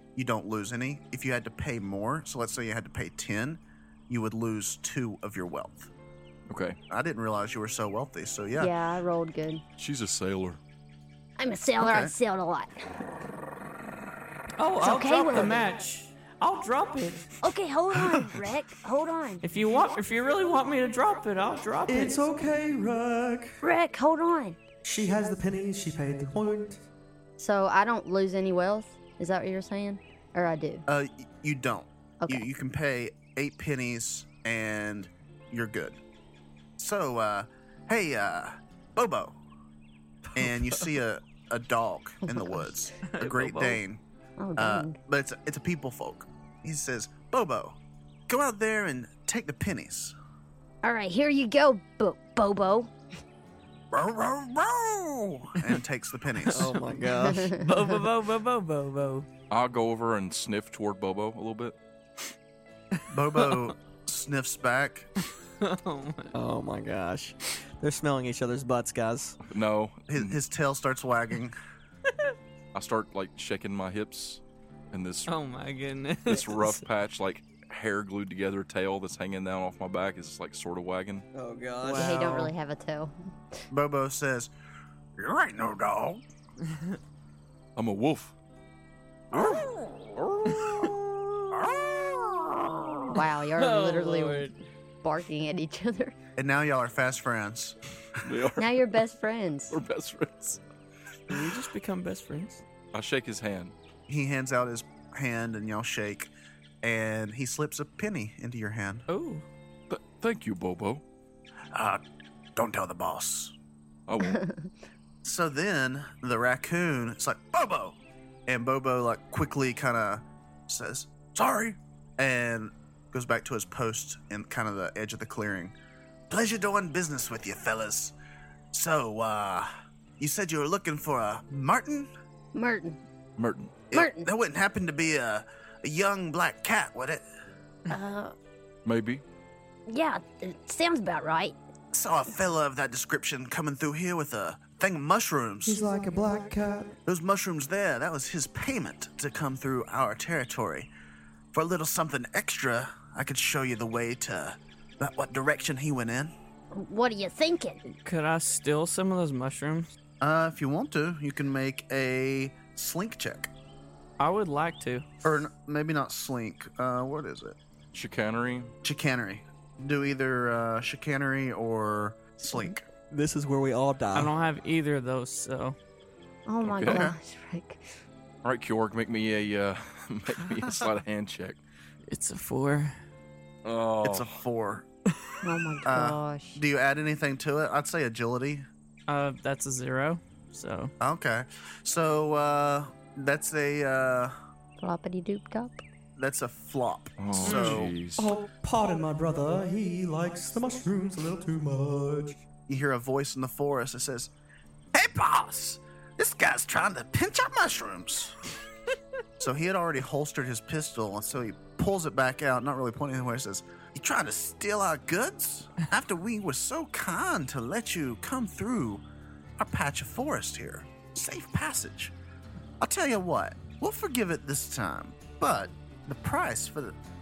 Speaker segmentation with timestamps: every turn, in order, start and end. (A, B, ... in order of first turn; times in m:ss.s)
0:00.1-0:05.9 A
0:06.5-0:06.8 B
0:06.9-0:08.7 A
0:08.6-0:09.6 C
0:09.8-0:10.6 B
0:11.4-0:12.8 C
0:11.8-0:12.1 A
0:14.6-0:17.3 D
0:14.8-0:15.6 C
0:17.4-0:19.4 C
0:19.4-0:22.2 D
0:21.9-0:23.6 E
0:23.6-0:24.6 C
0:24.8-0:26.8 E
0:27.4-0:30.8 C
0:30.9-0:36.0 A
0:32.2-0:32.5 C
0:36.8-0:39.4 A
0:40.3-0:44.0 A
0:42.2-0:42.7 C
0:43.1-0:43.8 D
0:44.4-0:44.9 C
0:44.6-0:50.1 A
0:50.8-0:52.9 C
0:53.9-0:56.8 A
0:56.5-0:57.5 F
0:56.5-0:59.3 D
0:57.2-0:57.6 C
0:59.5-1:01.8 B
1:03.1-1:05.1 A
1:05.6-1:06.3 D
1:06.3-1:09.4 F
1:09.5-1:10.4 B
1:10.1-1:11.6 A
1:12.7-1:14.4 B
1:14.9-1:15.3 B
1:15.3-1:16.8 D
1:16.2-1:21.2 B
1:21.3-1:22.3 F
1:21.8-1:22.5 D
1:21.9-1:23.1 C
1:23.7-1:24.5 A
1:25.2-1:26.2 A
1:26.7-1:27.0 D
1:27.8-1:28.3 B
1:29.3-1:31.0 B
1:31.6-1:31.9 A
1:32.5-1:32.9 B
1:33.1-1:34.5 C
1:33.6-1:34.6 D
1:35.0-1:36.1 C
1:36.4-1:37.8 A
1:38.2-1:39.1 B
1:38.6-1:39.8 C
1:39.7-1:40.6 B
1:41.3-1:42.6 D
1:42.9-1:43.7 B
1:44.1-1:49.0 A
1:49.1-1:49.4 D
1:49.9-1:51.0 B
1:51.7-1:52.0 A
1:52.5-1:53.5 A
1:54.1-1:54.4 B
1:54.2-1:54.7 C
1:55.2-2:05.7 A
2:06.3-2:08.1 A
2:08.7-2:12.1 A
2:12.5-2:13.0 C
2:13.4-2:13.8 B
2:13.9-2:17.2 A
2:13.9-2:14.3 C
2:17.9-2:18.3 C
2:18.8-2:19.2 B
2:19.9-2:21.6 C
2:21.9-2:25.8 A
2:25.6-2:26.9 E
2:27.0-2:30.9 A
2:31.5-2:36.3 A
2:36.7-2:37.8 C
2:37.8-2:39.9 D
2:40.2-2:43.5 A
2:44.2-2:45.0 D
2:45.2-2:47.6 A
2:47.9-2:48.7 B
2:48.8-2:52.8 A
2:53.0-2:54.3 F
2:54.1-2:55.8 D
2:56.4-2:57.8 C
2:56.6-2:57.0 B
2:56.8-2:57.2 A
2:58.4-3:01.6 B
3:00.6-3:00.9 A
3:02.1-3:03.0 D
3:03.6-3:04.4 B
3:04.0-3:04.8 A
3:05.4-3:06.6 C
3:05.8-3:08.6 A
3:09.1-3:10.9 D
3:11.0-3:14.3 A
3:14.8-3:15.8 C
3:16.2-3:18.0 A
3:17.2-3:18.3 B
3:17.4-3:17.8 D
3:18.2-3:22.4 E
3:22.7-3:24.3 A
3:24.9-3:28.3 A
3:29.4-3:39.0 A
3:39.6-3:42.1 A
3:42.8-3:47.0 A